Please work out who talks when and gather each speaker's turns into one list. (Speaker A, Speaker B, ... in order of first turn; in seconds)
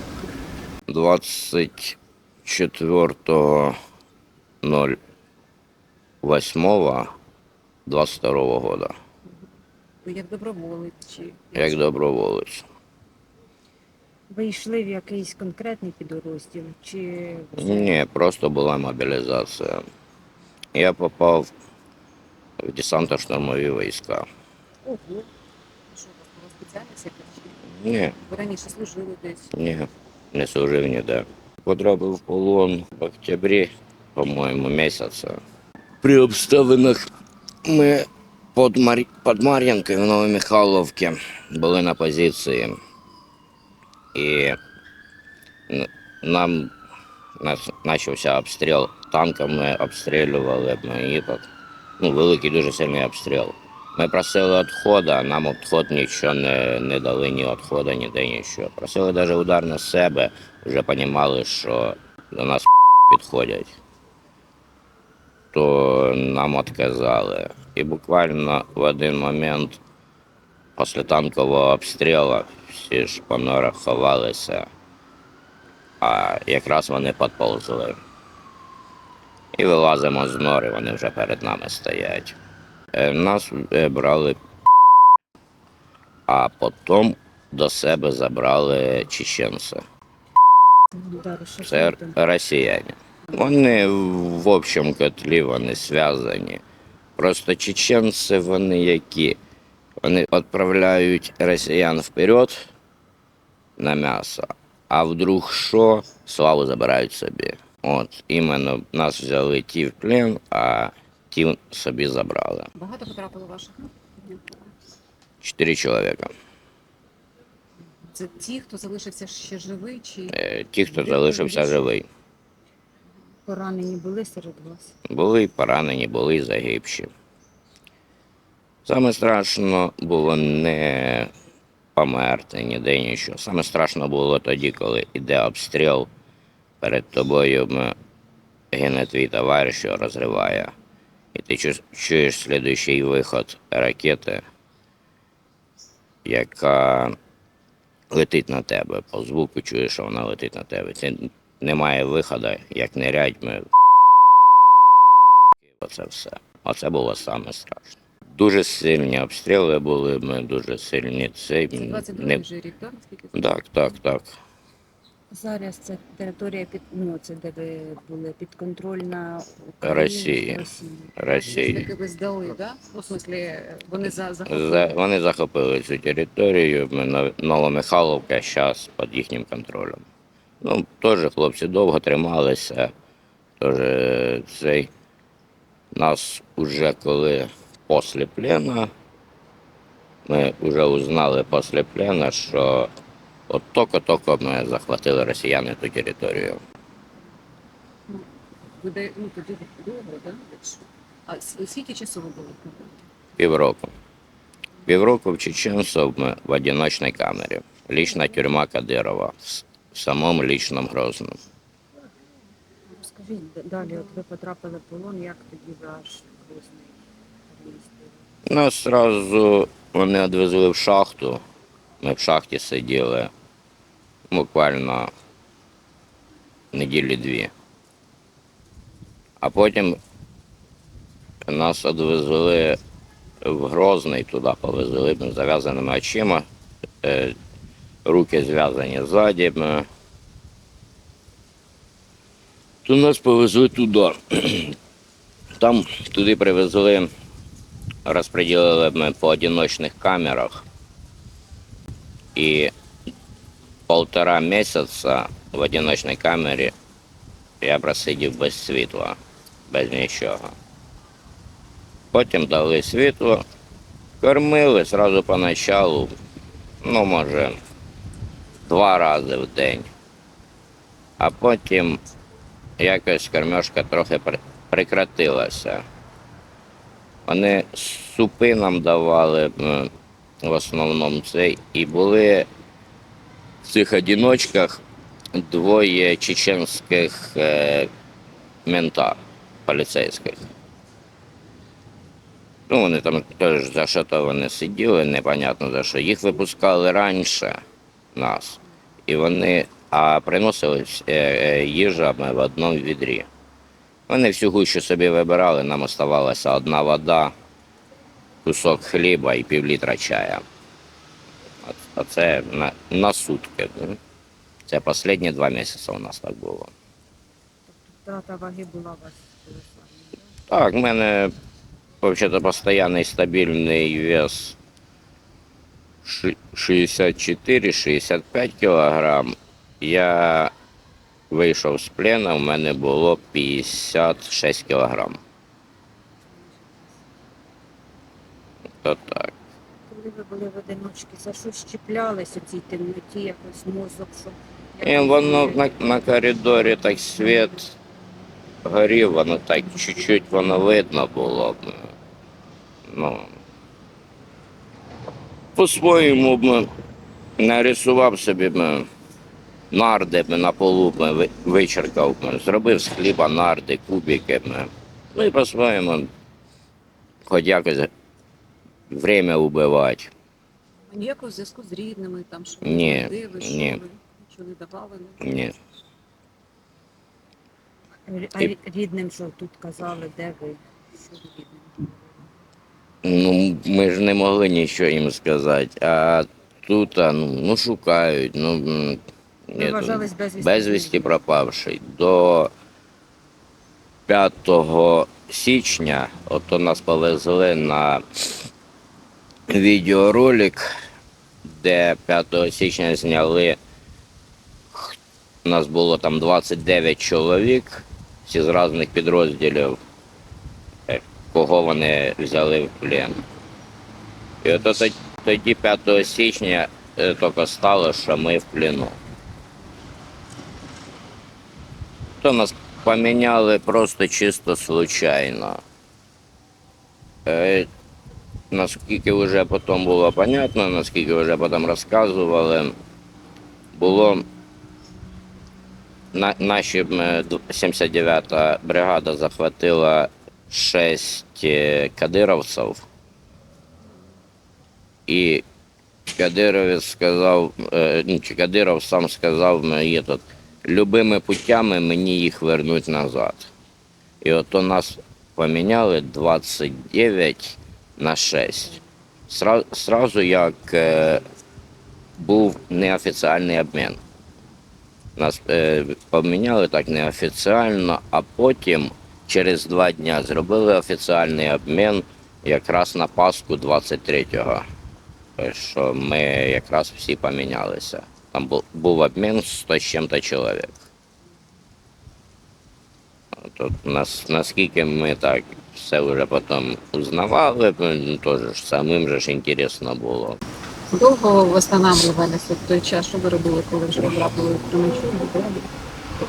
Speaker A: 0.9-3.8, 4.6-5.0, 6.2-7.1, 7.9-8.9, 11.6-12.7, 17.6-19.8, 20.7-21.5, 22.6-24.2, 27.7-28.1, 29.5-35.4, 36.0-37.1, 37.6-42.8, 44.1-44.6, 45.7-46.7, 47.4-51.5, 52.0-63.8, 65.5-69.8, 70.8-74.7, 76.0-78.0, 79.5-82.4, 82.9-84.4, 86.3-89.8, 91.6-96.6, 97.2-99.4, 100.0-102.7, 103.8-112.7, 115.4-116.3, 120.3-122.1, 125.1-127.1, 128.9-131.3, 131.9-136.1, 136.8-137.9, 138.7-140.7, 141.3-144.4, 146.2-147.2, 148.1-153.7, 154.2-162.4, 163.3-164.3, 169.8-170.7, 171.2-171.9, 174.5-180.0, 180.6-182.9, 183.6-184.9, 185.9-188.9, 190.3-192.9, 193.5-196.6, 203.4-203.9, 204.9-211.4, 218.5-221.4, 222.0-223.3, 224.3-225.1, 226.7-227.5, 229.4-230.0, 231.5-232.8, 233.4-236.5, 237.0-237.3, 238.1-239.9, 242.8-244.8, 245.6-247.1, 248.1-250.6, 252.3-252.7, 253.9-256.7, 257.6-259.2, 259.7-260.5, 262.1-263.4, 264.2-266.1, 266.8-267.6, 268.7-269.9, 271.2-272.0, 272.8-275.8, 277.3-279.9, 280.4-282.5, 283.6-284.8, 285.4-287.9, 288.6-290.4, 292.7-297.6, 298.1-303.3, 304.1-307.3, 308.4-310.4, 311.6-314.0, 314.7-316.7, 320.5-321.3, 322.0-324.6, 326.0-330.5, 331.3-335.2, 338.8-339.3, 344.8-347.7, 348.6-351.9, 352.9-353.4, 355.6-356.7, 357.4-358.9, 359.7-366.1, 367.3-367.9, 368.9-370.1, 372.6-373.8, 375.2-375.5, 383.0-392.5, 394.1-398.5, 399.5-400.7, 401.4-403.6, 404.7-409.8, 410.9-413.2, 414.4-419.0, 422.2-425.6, 427.3-427.7, 428.5-432.7, 433.8-434.2, 436.1-442.9, 445.1-445.4, 446.1-453.5, 454.2-461.2, 462.2-464.0, 465.2-474.6, 475.4-480.8, 483.4-490.4
Speaker B: 10.0-11.8, 24.9-25.3, 25.9-27.6, 28.2-29.5, 112.8-114.6, 118.1-120.4, 121.0-121.6, 161.7-163.4, 171.4-174.9, 198.8-203.0, 213.8-214.2, 370.9-375.2, 381.1-381.7, 490.9-495.7
Speaker C: 14.3-18.0, 91.0-92.1, 123.5-124.9, 165.3-171.1, 212.9-218.1, 317.7-320.2, 339.9-345.5, 378.1-380.6, 389.6-391.1